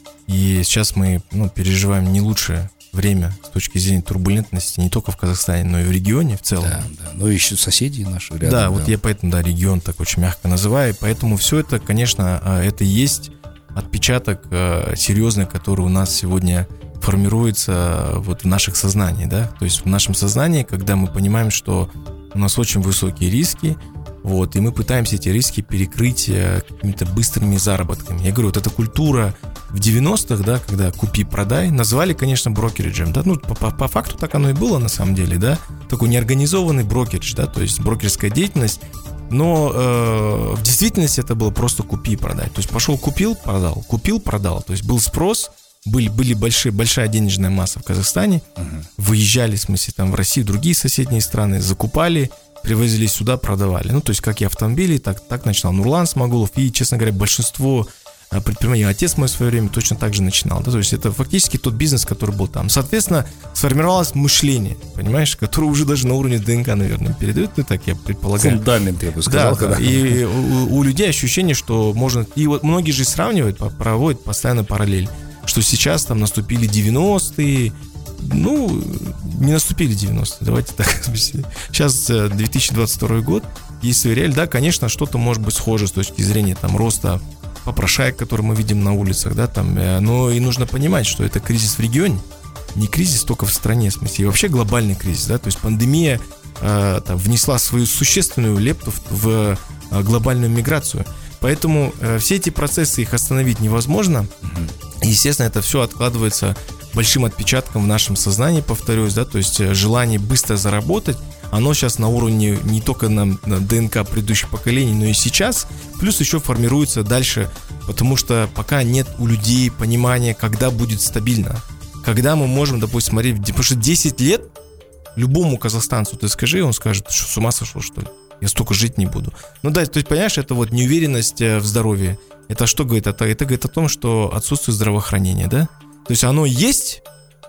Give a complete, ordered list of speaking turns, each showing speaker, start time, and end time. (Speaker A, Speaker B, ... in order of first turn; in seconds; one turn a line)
Speaker A: 0.3-6.9
Speaker B: 6.6-8.9
Speaker A: 8.4-48.5
Speaker B: 48.6-48.9
Speaker A: 49.0-68.6
Speaker B: 68.4-70.2
Speaker A: 69.3-92.2
Speaker A: 92.8-104.3
Speaker B: 104.4-104.7
Speaker A: 105.0-124.5
Speaker A: 125.2-137.0